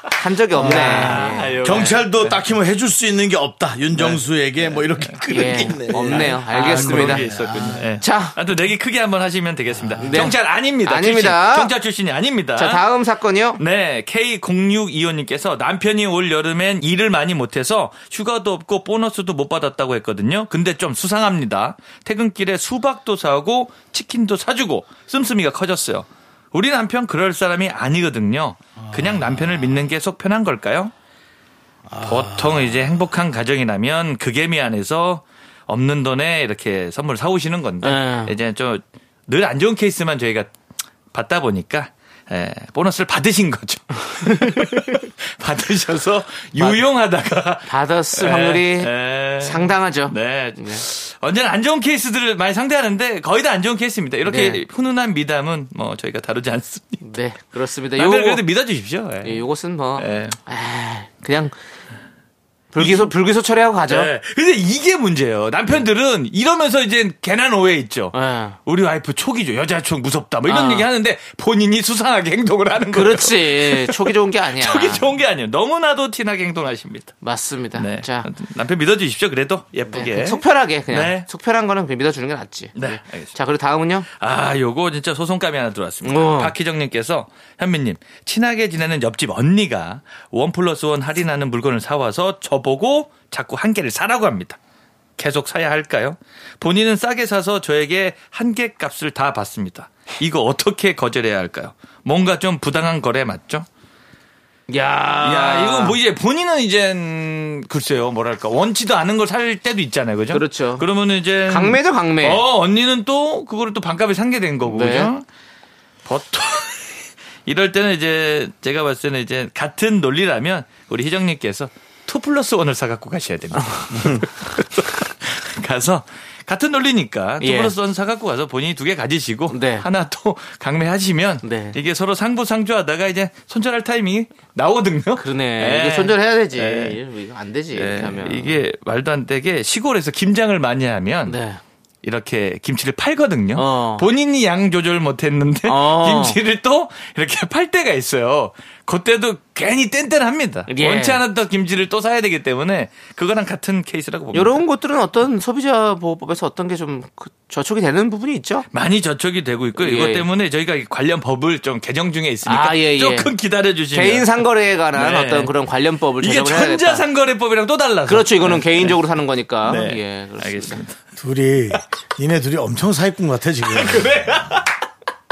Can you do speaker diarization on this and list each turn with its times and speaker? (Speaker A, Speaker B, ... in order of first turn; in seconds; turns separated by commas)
Speaker A: 0.1-1.9, Speaker B: 0.5-8.0, Speaker C: 0.6-2.4, Speaker C: 5.1-12.8, Speaker A: 5.3-7.3, Speaker A: 8.0-8.3, Speaker B: 9.8-10.2, Speaker A: 10.0-11.7, Speaker A: 12.6-13.6, Speaker C: 13.6-30.9, Speaker B: 28.8-29.8, Speaker B: 31.9-32.8, Speaker C: 32.0-40.5, Speaker A: 37.8-38.3, Speaker C: 41.1-57.0, Speaker A: 44.2-44.8, Speaker A: 46.6-46.8, Speaker A: 47.6-50.8, Speaker A: 54.2-54.6, Speaker A: 57.0-58.4, Speaker C: 58.0-59.4, Speaker A: 59.2-61.5, Speaker C: 60.0-60.4, Speaker A: 62.7-64.1, Speaker C: 62.8-63.1, Speaker C: 63.9-68.1, Speaker A: 68.1-68.6, Speaker C: 68.7-77.1, Speaker A: 70.5-70.9, Speaker A: 72.9-75.1, Speaker A: 77.2-78.3, Speaker C: 77.8-81.3, Speaker A: 79.9-84.1, Speaker C: 82.8-83.3, Speaker C: 84.2-94.6, Speaker A: 86.0-86.5, Speaker C: 95.2-103.7, Speaker A: 104.7-106.0, Speaker C: 105.2-115.2, Speaker A: 110.3-110.8, Speaker A: 111.5-112.4, Speaker A: 114.6-115.1, Speaker C: 116.0-116.9, Speaker C: 117.5-137.0, Speaker A: 123.5-123.8, Speaker A: 127.4-127.7, Speaker A: 129.5-129.9, Speaker A: 131.4-131.8, Speaker A: 135.2-138.6, Speaker C: 137.7-141.4, Speaker A: 141.2-141.6, Speaker C: 142.0-154.6, Speaker A: 143.5-144.1, Speaker A: 145.7-146.4, Speaker A: 150.7-151.2, Speaker A: 154.3-158.7, Speaker C: 158.7-164.3, Speaker A: 159.8-160.2, Speaker A: 162.4-163.3, Speaker A: 163.9-167.1, Speaker C: 164.9-165.5, Speaker C: 166.2-168.9, Speaker A: 168.1-170.8, Speaker C: 169.6-171.0, Speaker B: 171.2-174.5, Speaker C: 173.7-174.7